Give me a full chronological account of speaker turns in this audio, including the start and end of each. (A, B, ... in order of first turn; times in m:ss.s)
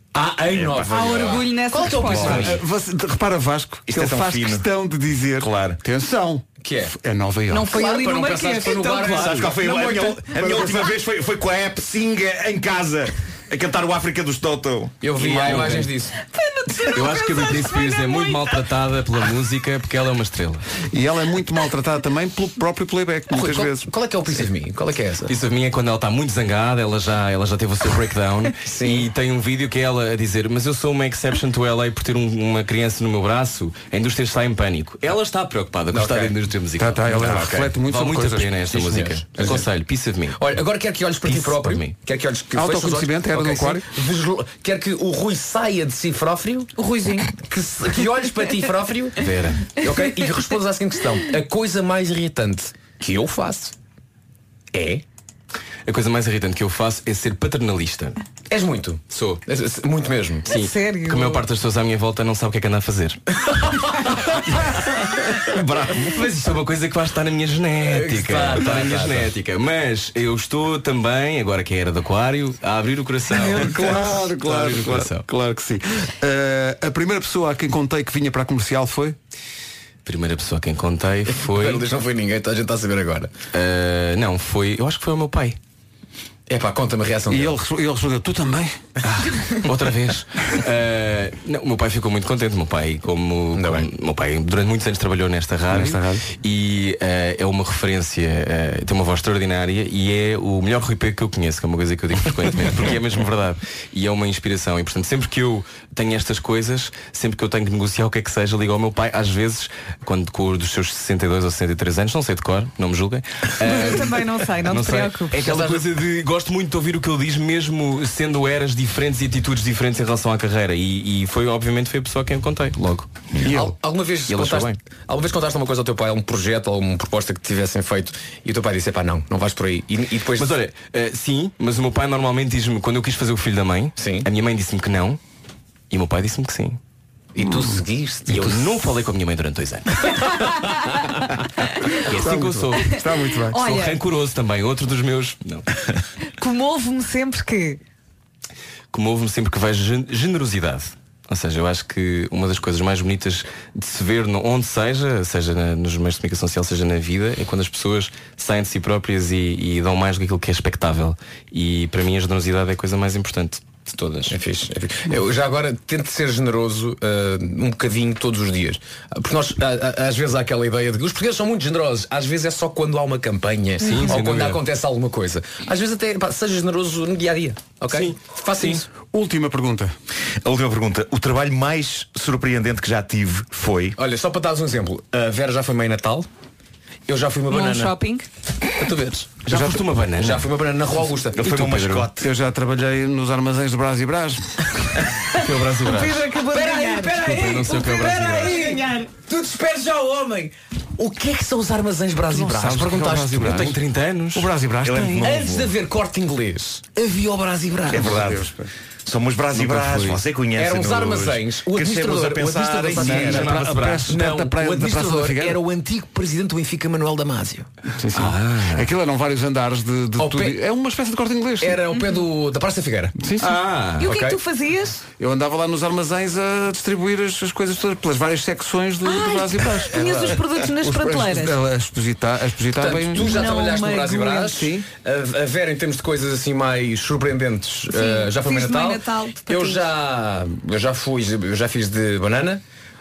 0:00.1-0:02.6 A
0:00.5-0:01.4 B
0:00.9-0:02.4 C
0:02.0-0:02.6 D
0:02.0-0:07.8 E
0:02.1-0:02.4 B
0:03.9-0:04.6 B
0:05.4-0:05.8 B
0:06.6-0:06.9 A
0:07.5-0:09.8 C
0:07.6-0:10.2 A
0:09.0-0:15.0 B
0:10.3-0:10.9 E
0:15.0-0:16.1 A
0:15.2-0:15.9 D
0:16.2-0:18.6 C
0:16.9-0:20.6 D
0:20.9-0:23.9 E
0:23.3-0:25.3 A
0:25.3-0:40.6 D
0:28.6-0:29.1 A
0:35.9-0:36.3 A
0:36.8-0:39.1 E
0:38.8-0:39.7 A
0:40.4-0:46.7 A
0:41.2-0:41.9 D
0:42.5-0:43.8 E
0:46.8-0:47.3 C
0:47.3-0:53.7 A
0:49.2-0:49.8 D
0:54.7-0:55.0 A
0:55.9-0:58.2 D
0:58.5-1:00.5 A
0:59.1-0:59.4 D
1:00.5-1:01.4 C
1:00.5-1:03.2 D
1:05.4-1:06.3 B
1:05.9-1:15.2 D
1:07.8-1:09.3 A
1:13.3-1:19.2 E
1:20.0-1:21.8 D
1:21.3-1:23.3 A
1:23.5-1:25.6 D
1:26.5-1:27.6 A
1:27.3-1:28.8 E
1:29.0-2:03.1 D
1:33.5-1:33.9 A
1:35.7-1:36.2 E
1:53.6-1:55.4 C
1:55.4-1:55.8 A
2:03.4-2:03.8 E
2:03.4-2:10.5 A
2:04.3-2:04.8 D
2:10.4-2:15.2 D
2:14.0-2:14.3 A
2:15.9-2:16.8 D
2:17.3-2:18.8 A
2:17.4-2:17.8 E
2:18.3-2:20.4 D
2:22.0-2:23.0 D
2:22.1-2:23.6 E
2:22.8-2:24.0 C
2:23.5-2:25.6 D
2:26.4-2:27.8 C
2:28.9-2:44.3 D
2:44.0-2:58.8 A
2:53.8-2:54.6 D
2:57.9-2:58.8 D
2:59.0-2:59.9 E
3:00.4-3:04.0 B
3:04.0-3:06.3 A
3:07.1-3:07.9 A
3:07.5-3:08.3 C
3:08.8-3:09.5 A
3:09.4-3:10.5 D
3:09.5-3:09.8 E
3:10.2-3:11.5 A
3:11.3-3:12.3 B
3:11.4-3:12.1 D
3:12.2-3:14.5 E
3:15.3-3:16.3 D
3:15.9-3:17.5 C
3:16.4-3:23.6 A
3:17.1-3:18.6 D
3:18.4-3:19.1 C
3:22.3-3:23.8 E
3:23.4-3:24.5 D
3:24.3-3:25.4 E
3:24.8-3:25.7 B
3:25.2-3:28.2 A
3:27.9-3:28.5 B
3:28.0-3:28.7 E
3:29.0-3:33.6 B
3:29.5-3:30.2 D
3:30.5-3:37.7 A
3:33.0-3:35.6 E
3:33.1-3:34.1 D
3:38.0-3:41.8 E
3:38.1-3:38.9 D
3:40.2-3:40.6 A
3:41.6-3:43.2 A
3:42.0-3:42.2 C
3:43.2-3:43.6 E
3:43.4-3:44.0 D
3:44.0-3:44.4 A
3:44.0-3:45.0 C
3:45.2-3:53.4 E
3:49.0-3:51.6 C
3:52.8-4:02.6 A
3:53.1-3:54.6 C
3:54.4-3:54.9 E
3:57.9-3:59.8 C